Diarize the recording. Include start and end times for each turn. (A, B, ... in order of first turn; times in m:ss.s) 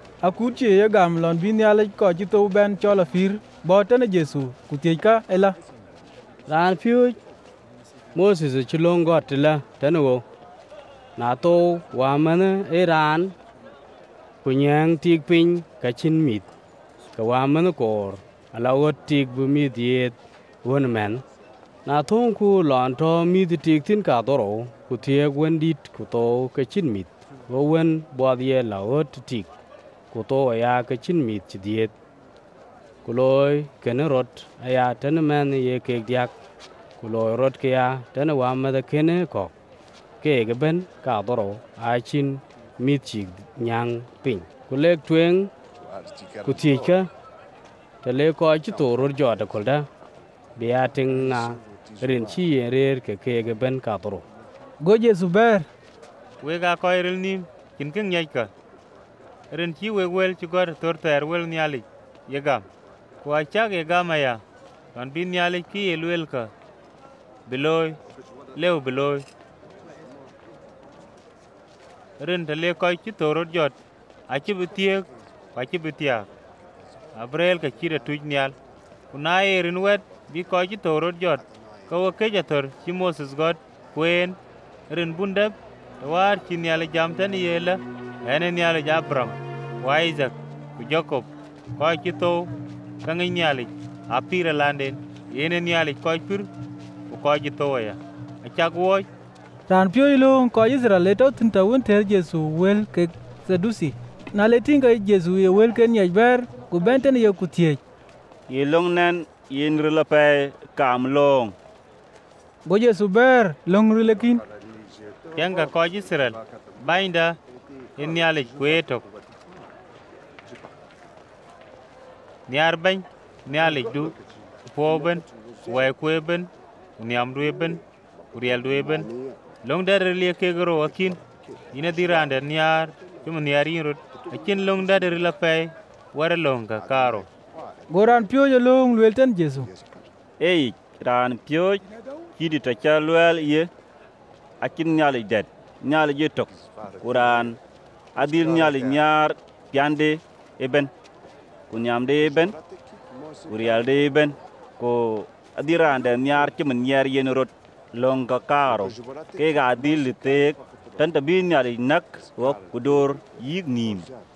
0:00.2-0:05.6 A
0:06.5-0:07.2 B
0:08.1-0:10.2 B
0:11.2-0:13.4 B
0:14.4-0:16.5 B
0:17.1-0:21.2 B
0:21.8-0:29.5 B
0:30.1-0:31.9 B
0:33.0-0:36.3 B
0:37.0-0:39.5 B
0:40.2-0:45.5 B
0:46.4-0:47.1 B
0:48.0-0:49.9 B
0:50.6-0:54.2 B
0:54.8-0:55.7 A
0:56.4-0:58.5 C
0:59.5-1:02.6 C
1:03.2-1:04.4 C
1:04.9-1:06.5 C
1:07.5-1:08.0 C
1:08.5-1:09.2 C
1:12.2-1:13.8 C
1:14.3-1:16.3 C
1:17.2-1:18.5 C
1:19.1-1:24.4 C
1:24.9-1:32.5 C
1:33.0-1:36.5 C
1:37.1-1:39.1 C
1:39.7-1:47.8 A
1:48.5-1:51.5 D
1:52.6-1:54.4 A
1:55.3-1:57.4 C
1:58.0-1:59.0 C
2:02.5-2:04.2 C
2:04.7-2:07.8 C
2:08.3-2:09.1 C
2:09.6-2:11.2 C
2:11.7-2:17.3 C
2:17.9-2:19.7 A
2:20.4-2:21.8 D
2:22.4-2:23.7 D
2:24.6-2:27.6 D
2:28.2-2:30.9 D
2:31.7-2:32.6 D
2:33.5-2:44.1 D